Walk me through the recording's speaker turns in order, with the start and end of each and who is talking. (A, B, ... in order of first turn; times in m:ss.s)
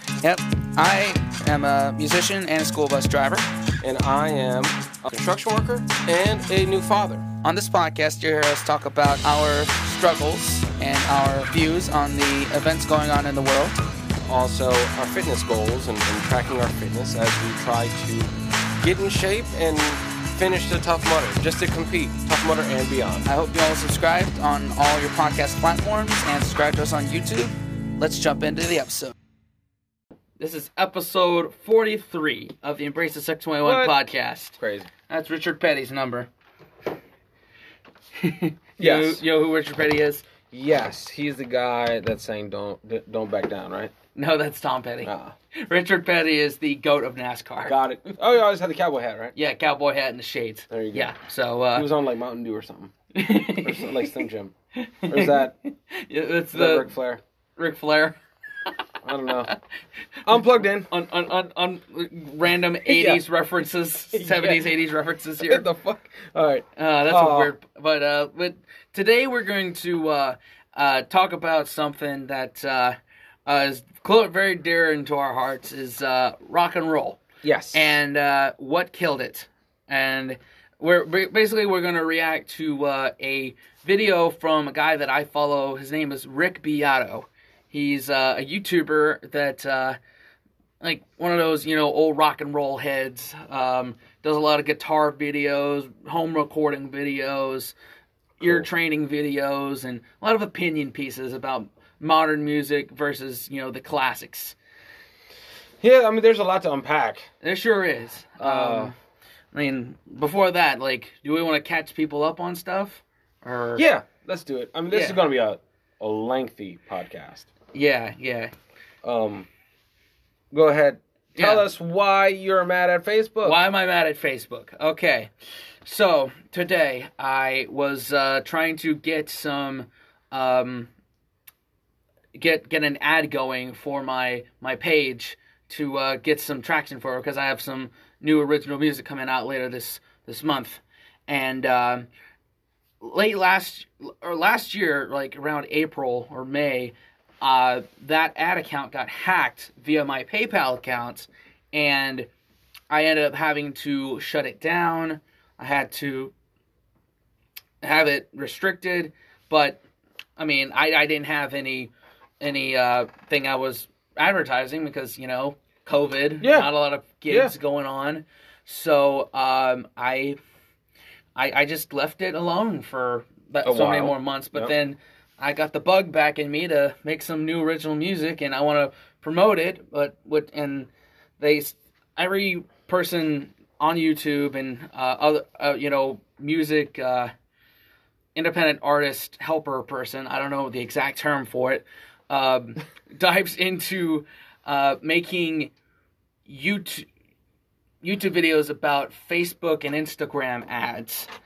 0:00.2-0:03.5 A
0:03.8-0:07.2 B
0:07.4-0:13.8 A
0:14.3-0:23.3 B
0:23.3-0:29.1 A
0:30.4-0:36.3 A
0:33.6-0:34.0 B
0:34.6-0:34.9 B
0:38.2-0:40.2 A
0:38.8-0:39.2 B
0:40.5-0:43.9 B
0:44.2-0:47.8 A
0:45.0-0:45.3 B
0:47.7-0:49.3 B
0:49.4-0:51.9 A
0:50.7-0:51.1 B
0:51.7-0:54.5 B
0:53.1-0:54.2 A
0:54.8-0:56.9 A
0:55.1-0:55.5 B
0:56.5-0:57.2 B
0:57.6-0:58.8 A
0:59.0-0:59.5 B
1:00.3-1:00.9 B
1:00.9-1:05.6 A
1:02.9-1:03.2 B
1:04.1-1:04.7 B
1:05.4-1:07.5 B
1:06.8-1:17.2 A
1:17.4-1:18.0 B
1:17.7-1:30.0 A
1:30.8-1:37.7 A
1:38.4-1:44.6 A
1:38.4-1:38.7 B
1:45.8-1:47.3 B
1:47.4-1:48.9 A
1:48.4-1:48.9 B
1:49.5-1:53.8 A
1:53.8-1:57.5 B
1:54.9-1:55.2 A
1:57.7-1:58.5 A
1:59.0-1:59.5 B
2:00.5-2:03.6 B
2:01.4-2:01.7 A
2:03.4-2:05.3 A
2:05.8-2:10.9 A
2:12.4-2:22.1 A
2:23.0-2:32.3 A
2:32.9-2:36.3 A
2:37.8-2:39.8 A
2:40.4-2:50.4 A
2:46.4-2:46.7 B
2:47.3-2:47.5 B
2:51.4-3:00.9 A
2:53.6-2:54.7 B
3:01.4-3:07.3 A
3:08.4-3:15.7 A
3:16.5-3:17.1 A
3:18.0-3:21.3 A